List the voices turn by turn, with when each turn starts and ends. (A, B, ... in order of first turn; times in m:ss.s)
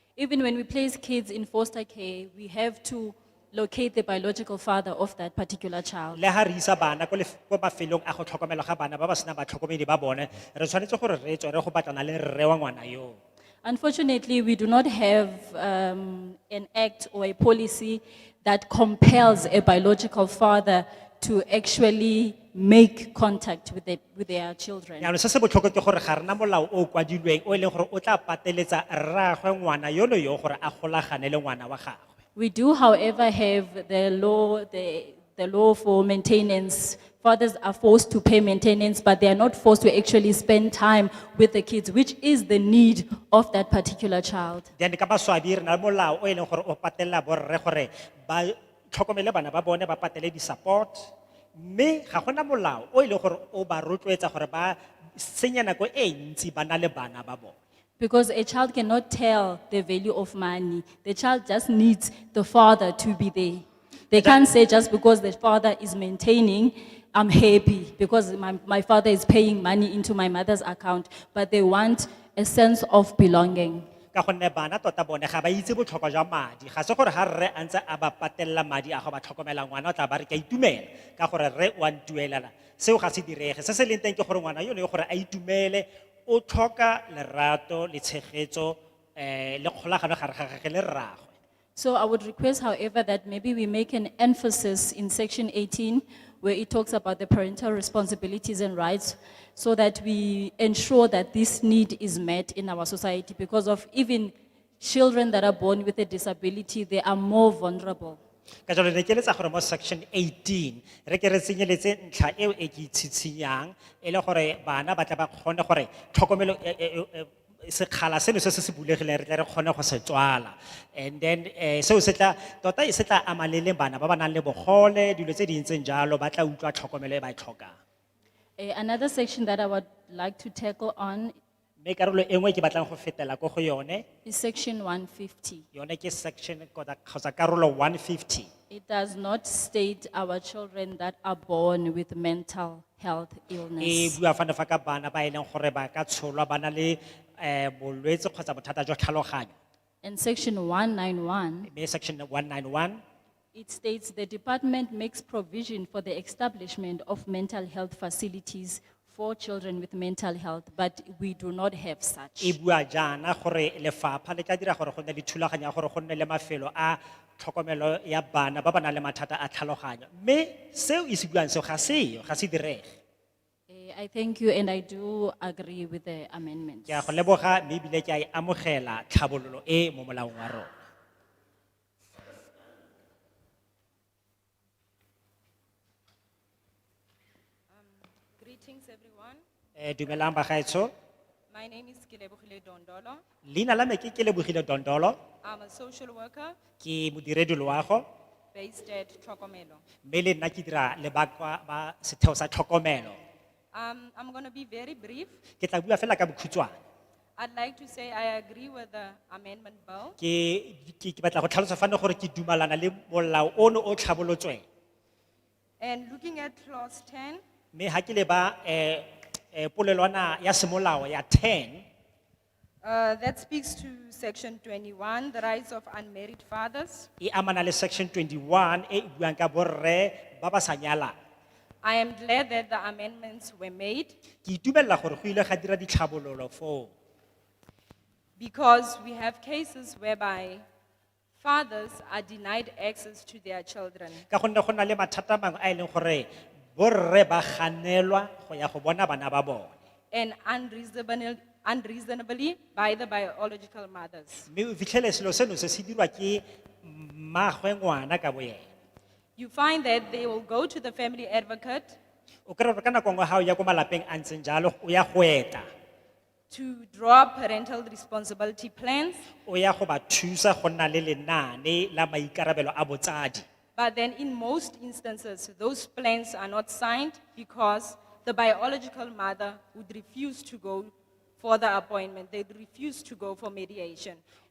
0:00.2-0:06.2 A
0:06.1-0:13.2 B
0:13.6-0:25.1 A
0:25.0-0:32.0 B
0:32.4-0:44.7 A
0:44.8-0:57.5 B
0:58.0-1:13.8 A
1:04.1-1:04.5 B
1:14.1-1:31.3 B
1:31.8-1:48.2 A
1:48.7-2:07.8 B
2:08.6-2:11.3 A
2:11.8-2:14.0 B
2:14.2-2:15.6 A
2:15.7-2:18.5 B
2:18.7-2:24.2 A
2:23.8-2:29.6 B
2:30.0-2:31.7 A
2:31.7-2:33.0 B
2:33.5-2:42.5 A
2:42.4-2:52.8 B
2:53.7-2:57.1 A
2:56.9-3:00.7 B
3:07.7-3:09.4 C
3:09.8-3:10.9 B
3:11.5-3:13.2 C
3:13.4-3:15.2 B
3:15.4-3:16.6 C
3:16.8-3:18.0 B
3:18.5-3:19.8 C
3:20.0-3:23.2 B
3:23.7-3:25.4 C
3:25.6-3:26.8 B
3:27.4-3:30.2 C
3:30.2-3:34.6 B
3:35.8-3:37.4 C
3:37.7-3:41.8 B
3:42.8-3:47.1 C
3:47.2-3:51.1 B
3:51.8-3:54.2 C
3:54.4-3:56.9 B
3:58.4-4:00.6 C
4:01.4-4:04.2 C
4:04.3-4:09.7 B
4:10.1-4:14.5 C
4:14.5-4:18.6 B
4:19.4-4:22.0 C
4:22.4-4:25.7 B
4:26.5-4:29.3 C
4:29.4-4:33.4 B
4:33.8-4:44.2 C